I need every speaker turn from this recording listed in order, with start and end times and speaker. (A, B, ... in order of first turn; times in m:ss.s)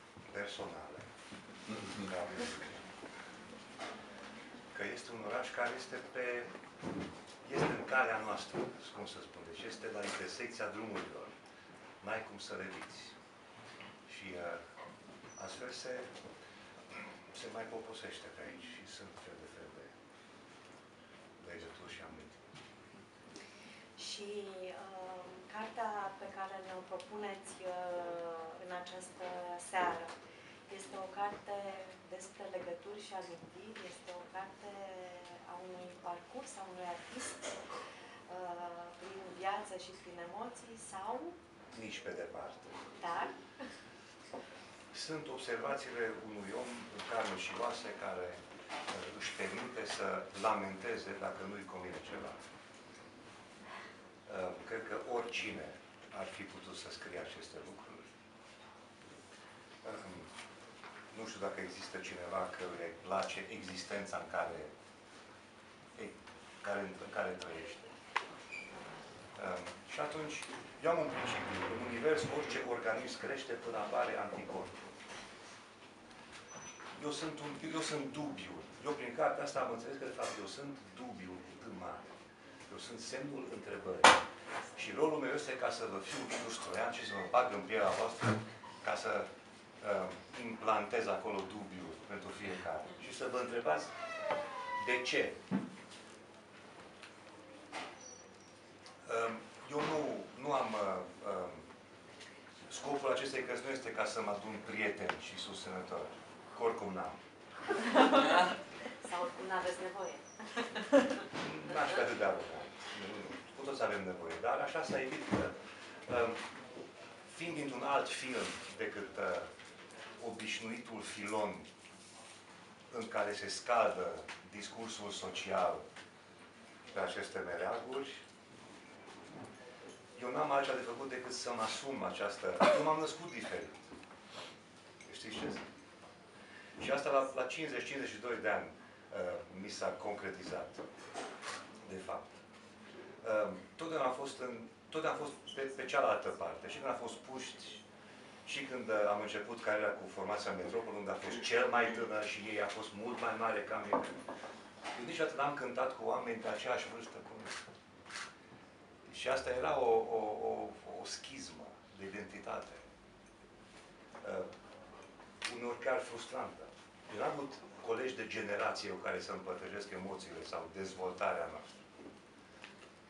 0:00.3-0:01.1 A
0:01.8-0:02.8 A
0:04.7-0:06.5 A
0:07.4-0:11.3 A
0:12.0-0:13.2 A
0:14.0-0:14.6 A
0:15.4-0:16.1 A
0:17.3-0:19.9 A
0:21.4-0:22.4 A
0:24.0-0:30.1 B
0:30.7-0:37.6 B
0:38.3-0:41.4 B
0:41.7-0:43.0 A
0:43.0-0:43.4 B
0:44.9-0:52.4 A
0:54.3-0:58.2 A
0:59.8-1:00.3 A
1:01.1-1:04.7 A
1:06.0-1:07.9 A
1:09.4-1:14.8 A
1:17.0-1:22.1 A
1:22.7-1:24.2 A
1:24.7-1:29.3 A
1:29.8-1:33.9 A
1:34.8-1:35.4 A
1:39.0-1:41.7 A
1:42.7-1:47.2 A
1:47.8-1:48.4 B
1:49.0-1:51.2 B
1:51.2-1:55.6 A
1:56.1-1:56.4 A
1:57.3-1:59.5 A
2:00.2-2:01.7 A
2:02.9-2:05.8 A
2:06.9-2:08.2 A
2:10.2-2:13.9 A
2:15.0-2:15.6 A
2:16.8-2:20.9 A
2:21.8-2:22.4 A
2:23.2-2:27.8 A
2:28.4-2:34.2 A
2:34.9-2:37.6 A
2:39.1-2:42.8 A
2:44.2-2:44.5 A
2:45.4-2:51.8 A